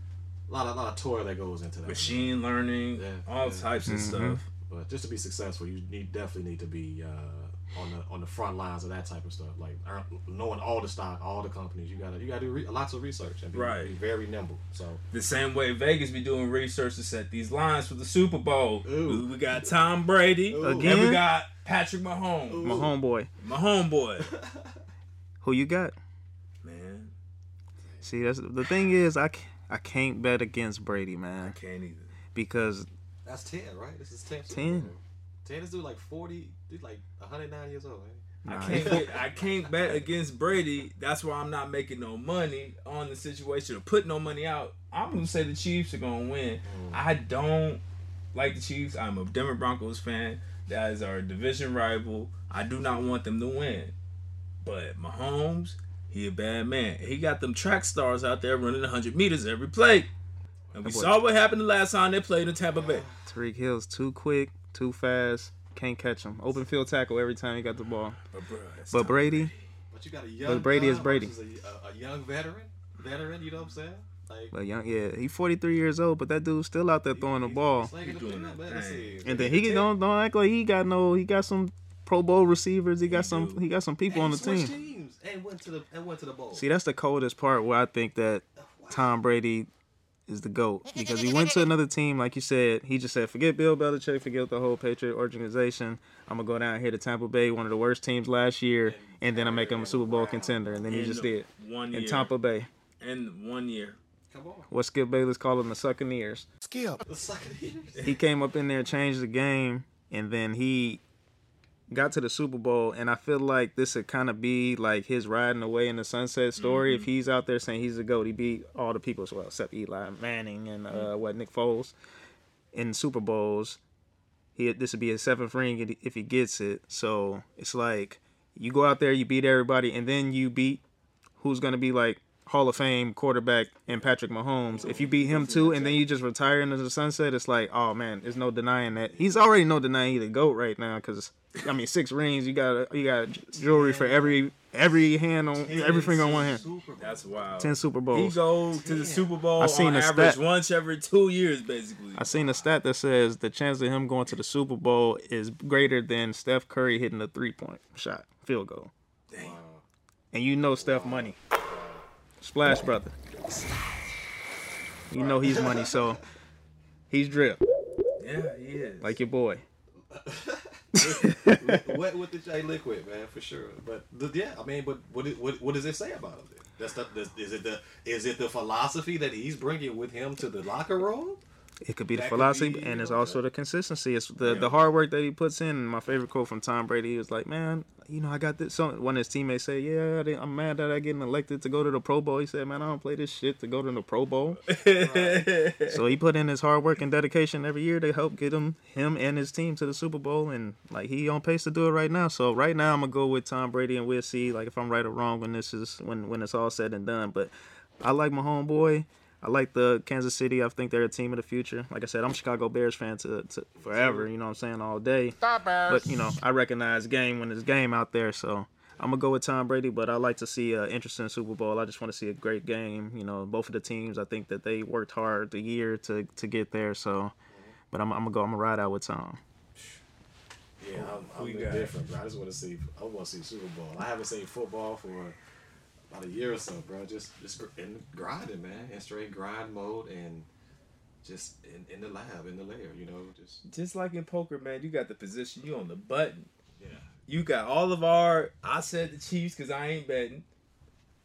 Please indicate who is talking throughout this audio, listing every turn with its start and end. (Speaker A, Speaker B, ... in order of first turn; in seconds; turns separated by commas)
Speaker A: 0.5-2.4, Speaker B: 1.9-4.5, Speaker A: 2.9-3.7, Speaker C: 3.8-4.4, Speaker A: 4.6-15.0, Speaker B: 13.5-13.9, Speaker B: 15.1-22.9, Speaker A: 18.8-19.8, Speaker A: 20.5-21.1, Speaker C: 20.6-21.2, Speaker A: 22.5-22.9, Speaker C: 22.6-23.3, Speaker B: 23.4-24.3, Speaker A: 24.2-24.8, Speaker C: 25.4-25.9, Speaker B: 26.6-27.1, Speaker A: 27.8-28.1, Speaker C: 28.0-31.6, Speaker B: 31.4-32.1, Speaker C: 32.3-32.9, Speaker A: 33.2-40.1, Speaker C: 34.5-34.9, Speaker C: 38.4-39.0, Speaker B: 38.5-47.8, Speaker A: 46.6-47.0, Speaker B: 48.3-53.9, Speaker B: 54.6-60.1, Speaker B: 60.7-63.1, Speaker C: 60.8-61.1, Speaker A: 62.7-63.3, Speaker C: 63.2-68.2, Speaker B: 68.3-69.6, Speaker C: 68.9-69.5, Speaker A: 69.9-74.5, Speaker C: 70.5-71.3, Speaker C: 74.5-77.9, Speaker A: 77.1-79.9, Speaker B: 78.0-79.2, Speaker C: 79.2-84.7, Speaker B: 83.1-83.6, Speaker A: 84.1-86.7, Speaker C: 86.5-89.7, Speaker A: 88.6-89.1, Speaker C: 90.3-102.7, Speaker A: 98.8-100.9, Speaker B: 100.9-102.3, Speaker B: 103.0-104.0, Speaker A: 104.3-104.7, Speaker C: 104.7-106.5, Speaker A: 107.0-108.0, Speaker C: 108.0-111.0, Speaker C: 111.9-121.9, Speaker B: 116.5-117.1, Speaker C: 122.7-123.8, Speaker C: 124.5-130.8, Speaker C: 131.4-146.6, Speaker A: 134.7-136.0, Speaker B: 134.8-135.8, Speaker A: 139.1-139.4, Speaker A: 143.6-144.4, Speaker A: 145.5-147.6, Speaker B: 145.7-152.2, Speaker C: 147.6-148.4, Speaker A: 148.7-149.3, Speaker C: 149.6-150.4, Speaker C: 152.1-158.9, Speaker A: 152.2-152.7, Speaker B: 159.3-159.6, Speaker A: 159.4-159.8, Speaker C: 160.3-161.4, Speaker A: 160.7-162.0, Speaker C: 162.4-163.1, Speaker C: 165.1-166.2, Speaker A: 165.1-166.2, Speaker C: 167.1-167.6, Speaker B: 168.2-169.2, Speaker C: 169.0-169.6, Speaker A: 170.1-181.4, Speaker C: 170.9-171.8, Speaker C: 181.8-194.6, Speaker A: 182.1-183.4, Speaker A: 184.4-184.8, Speaker B: 194.7-196.0, Speaker A: 194.9-195.7, Speaker C: 195.9-227.3, Speaker A: 213.8-214.3, Speaker C: 227.9-229.4, Speaker A: 230.8-235.3, Speaker B: 230.9-231.9, Speaker A: 236.1-240.5, Speaker A: 241.2-243.6, Speaker B: 243.7-246.5, Speaker A: 246.8-247.1, Speaker B: 247.3-250.4